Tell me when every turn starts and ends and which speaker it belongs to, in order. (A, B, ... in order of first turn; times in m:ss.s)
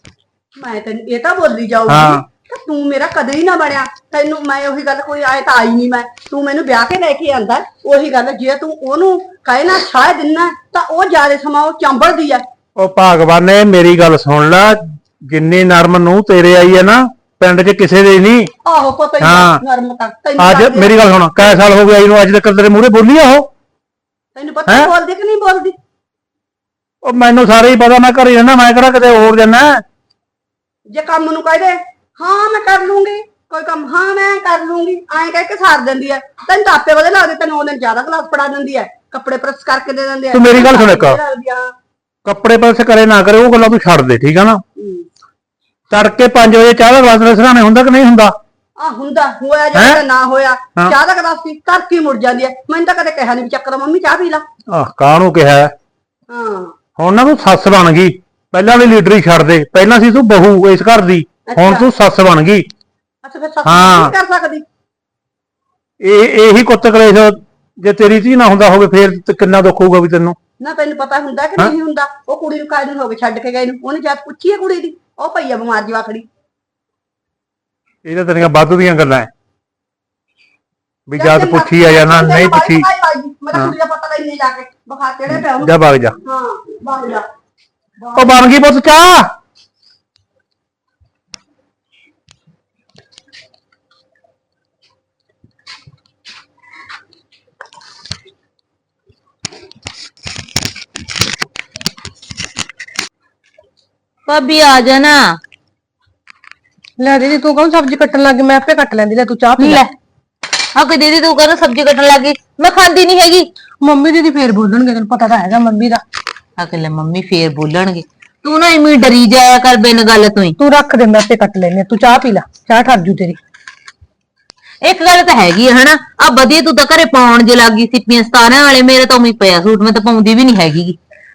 0:00.6-0:12.4 A
0:01.9-0:02.2 B
0:12.8-0:18.5 B
0:18.6-0:21.6 A
0:19.2-0:19.6 B
0:20.4-0:23.5 B
0:24.4-0:25.8 A
0:27.0-0:29.8 B
0:30.9-0:41.7 A
0:40.3-0:41.2 B
0:42.2-0:44.6 B
0:44.8-0:45.1 A
0:45.9-0:48.4 B
0:48.8-0:54.4 A
0:49.7-0:50.0 B
0:54.7-0:55.7 B
0:56.3-0:56.8 A
0:57.0-1:02.7 B
1:01.5-1:01.9 A
1:03.2-1:04.6 A
1:03.6-1:04.1 B
1:06.0-1:10.4 B
1:10.6-1:16.3 A
1:18.0-1:19.3 B
1:21.1-1:22.9 B
1:21.2-1:25.7 A
1:25.4-1:26.2 B
1:26.2-1:27.3 A
1:28.0-1:28.4 A
1:28.2-1:29.3 B
1:44.3-1:45.4 C
1:47.0-1:49.8 D
1:49.6-1:49.9 C
1:50.8-1:53.5 C
1:53.8-1:56.0 D
1:56.6-2:00.6 C
2:00.6-2:03.4 D
2:04.8-2:11.0 C